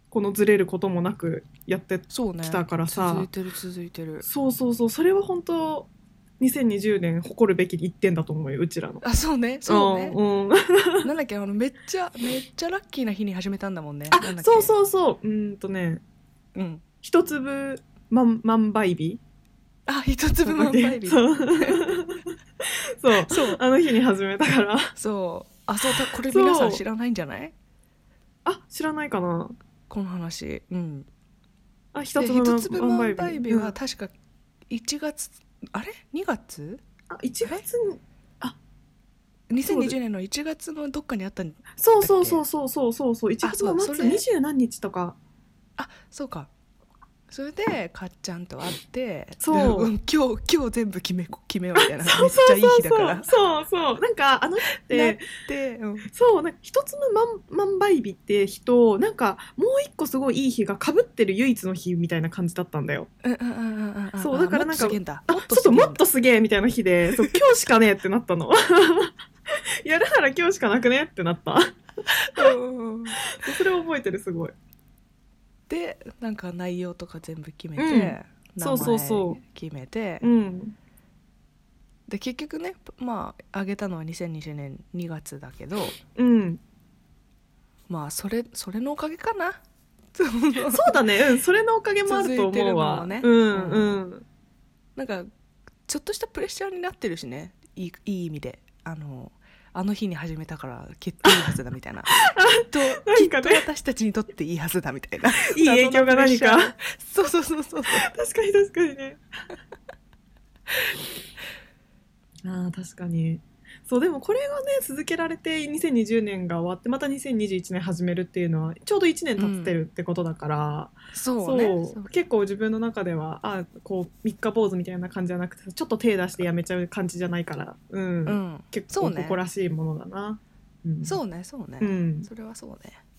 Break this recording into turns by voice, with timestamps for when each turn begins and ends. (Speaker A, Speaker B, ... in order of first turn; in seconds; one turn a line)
Speaker A: 0.1-3.3
Speaker B: 2.1-4.3
Speaker A: 4.2-5.9
Speaker A: 6.4-9.0
Speaker B: 9.0-10.2
Speaker A: 9.7-11.1
Speaker B: 11.0-14.7
Speaker A: 14.1-16.0
Speaker B: 16.6-16.8
Speaker A: 17.0-19.2
Speaker B: 19.9-22.0
Speaker A: 20.5-24.9
Speaker B: 23.3-23.6
Speaker B: 25.0-27.6
Speaker A: 25.9-26.8
Speaker A: 28.4-29.6
Speaker B: 29.9-31.1
Speaker A: 31.9-33.8
Speaker B: 32.2-34.1
Speaker B: 34.7-36.8
Speaker A: 37.1-38.6
Speaker B: 39.5-42.4
Speaker A: 39.7-40.0
Speaker A: 41.8-45.2
Speaker B: 43.4-44.2
Speaker B: 45.8-46.5
Speaker B: 47.3-53.4
Speaker A: 49.4-49.9
Speaker A: 51.8-55.2
Speaker B: 54.9-56.1
Speaker A: 56.1-63.1
Speaker B: 63.2-66.0
Speaker A: 64.2-71.7
Speaker B: 72.1-73.3
Speaker A: 73.2-74.5
Speaker B: 75.7-80.3
Speaker A: 77.8-79.4
Speaker A: 80.2-80.8
Speaker B: 82.1-86.0
Speaker A: 86.2-86.6
Speaker B: 87.9-89.6
Speaker B: 90.1-91.0
Speaker A: 90.7-94.3
Speaker B: 92.1-94.0
Speaker B: 95.0-95.3
Speaker B: 95.9-108.1
Speaker A: 102.1-103.7
Speaker A: 105.3-106.7
Speaker A: 107.9-109.2
Speaker A: 112.4-131.2
Speaker B: 119.4-119.8
Speaker B: 121.1-122.1
Speaker B: 128.3-129.4
Speaker B: 131.0-133.0
Speaker A: 131.8-132.3